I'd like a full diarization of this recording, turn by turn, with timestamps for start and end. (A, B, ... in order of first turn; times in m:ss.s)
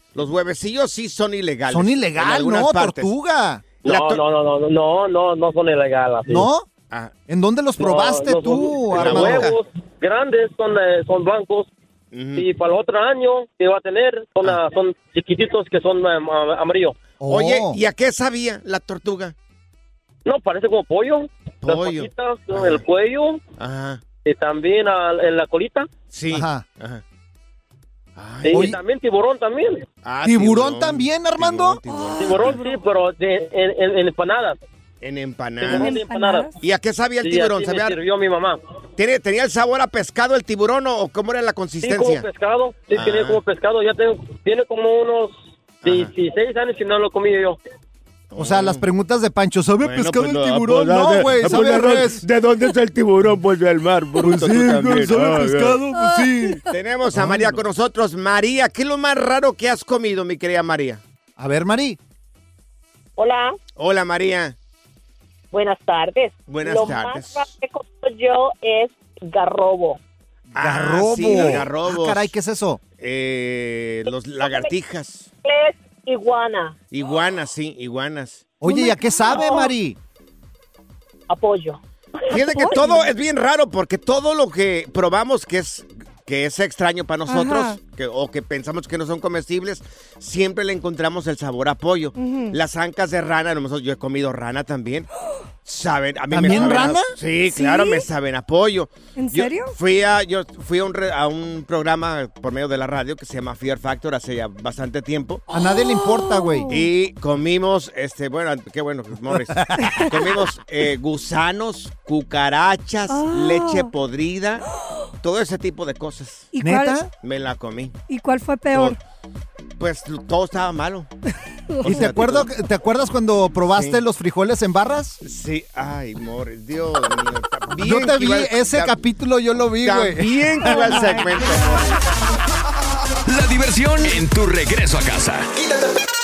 0:00.1-0:03.1 A
0:01.7-0:03.6 B
0:03.8-0:04.2 A
0:03.8-0:06.4 C
0:06.3-0:06.7 B
0:07.3-0:09.5 B
0:07.8-0:11.7 C
0:08.9-0:09.5 A
0:12.1-0:12.5 A
0:12.4-0:17.0 C
0:17.2-0:17.8 B
0:17.3-0:19.3 A
0:20.2-0:23.4 C
0:21.6-0:22.8 A
0:23.6-0:24.0 A
0:24.2-0:25.9 C
0:26.1-0:27.0 A
0:26.3-0:26.6 B
0:28.2-0:28.7 A
0:28.4-0:29.8 C
0:28.5-0:28.8 B
0:30.0-0:32.6 A
0:30.2-0:31.8 B
0:31.9-0:32.8 D
0:32.2-0:34.6 C
0:35.0-0:36.0 A
0:35.6-0:36.5 C
0:35.6-0:36.5 D
0:36.6-0:38.0 A
0:37.2-0:38.6 C
0:39.0-0:42.3 A
0:41.8-0:47.6 C
0:42.9-0:43.4 A
0:45.8-0:46.1 A
0:48.3-0:48.8 A
0:48.4-0:52.2 B
0:49.8-0:55.8 A
0:54.2-0:56.6 B
0:55.9-0:56.2 D
0:56.7-1:01.0 A
0:57.1-0:57.6 B
1:01.4-1:02.0 B
1:03.2-1:03.6 E
1:03.8-1:04.5 A
1:05.5-1:10.0 E
1:06.5-1:07.5 A
1:10.5-1:12.3 A
1:10.5-1:12.8 B
1:13.0-1:15.3 A
1:14.4-1:14.7 E
1:15.4-1:16.7 E
1:16.9-1:18.4 A
1:18.6-1:20.0 B
1:18.6-1:19.6 D
1:19.3-1:19.7 E
1:21.3-1:23.0 E
1:22.3-1:35.1 A
1:27.3-1:27.8 D
1:32.2-1:32.6 D
1:35.6-1:45.4 A
1:36.3-1:37.1 B
1:37.5-1:38.0 D
1:39.2-1:39.7 D
1:45.5-1:46.8 B
1:45.5-1:46.8 D
1:46.7-1:54.6 A
1:49.5-1:50.0 B
1:49.8-1:50.1 D
1:53.1-1:53.9 D
1:55.2-1:56.5 A
1:56.5-1:57.0 D
1:56.6-1:57.1 B
1:57.2-1:57.9 A
1:58.1-1:59.0 D
1:59.8-2:01.1 A
2:01.7-2:02.1 D
2:01.8-2:02.5 A
2:01.8-2:05.2 B
2:03.7-2:04.0 A
2:05.2-2:08.9 A
2:07.8-2:11.2 B
2:09.8-2:11.8 A
2:10.6-2:11.1 D
2:13.2-2:15.5 F